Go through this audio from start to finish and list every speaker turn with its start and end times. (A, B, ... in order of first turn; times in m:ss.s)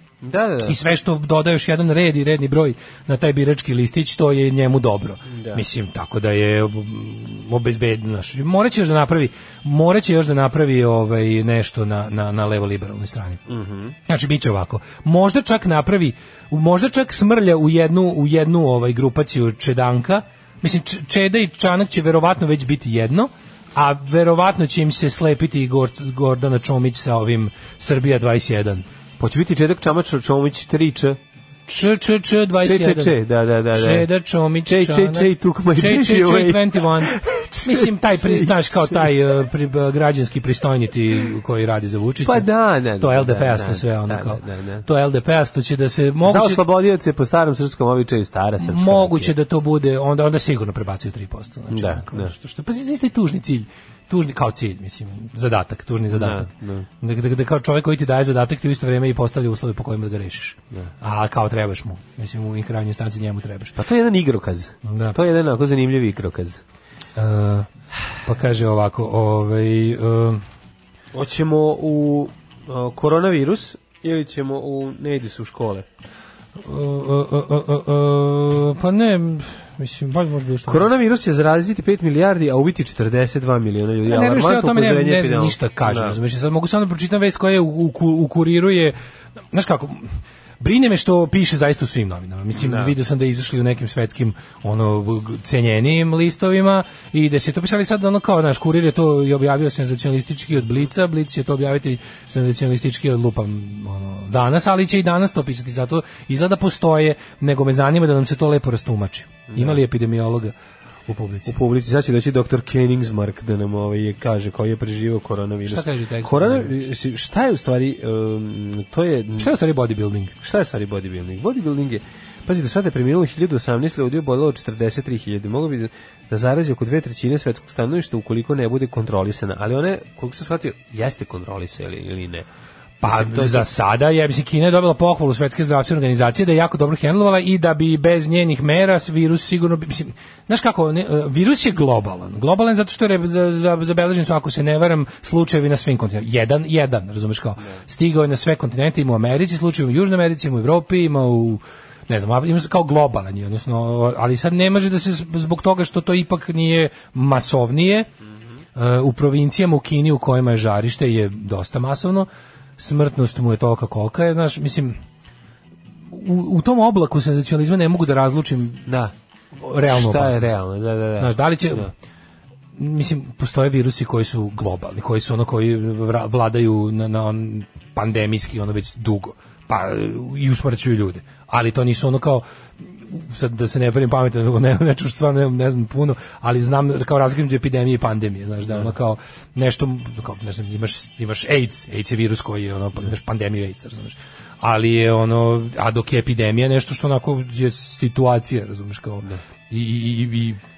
0:00.2-0:00.8 A
0:00.6-0:13.4 B
0:05.3-0:05.6 A
0:13.5-0:13.9 A
0:14.1-0:28.8 B
0:29.2-0:31.2 A
0:31.7-0:33.2 B
0:32.6-0:34.1 A
0:33.7-0:46.6 B
0:34.6-0:39.1 A
0:42.2-0:44.8 A
0:46.2-0:49.3 A
0:48.6-1:03.8 B
0:51.7-0:52.3 A
0:56.1-0:56.9 A
1:03.8-1:06.6 A
1:04.8-1:05.2 B
1:07.2-1:07.7 B
1:08.2-1:10.4 B
1:11.1-1:15.9 A
1:16.6-1:20.9 B
1:20.6-1:26.2 A
1:24.0-1:28.9 B
1:29.5-1:50.5 B
1:32.5-1:32.9 A
1:49.5-1:49.8 A
1:51.1-1:51.5 B
1:51.4-1:59.5 A
1:55.6-1:56.7 B
1:59.4-2:00.3 B
2:00.4-2:12.5 A
2:13.0-2:38.1 B
2:13.0-2:13.7 A
2:38.7-2:45.0 B
2:46.1-2:48.8 B
2:48.8-2:49.1 A
2:49.6-2:50.6 B
2:49.8-2:51.9 A
2:51.2-2:51.9 B
2:52.8-3:02.4 B
3:03.1-3:20.6 B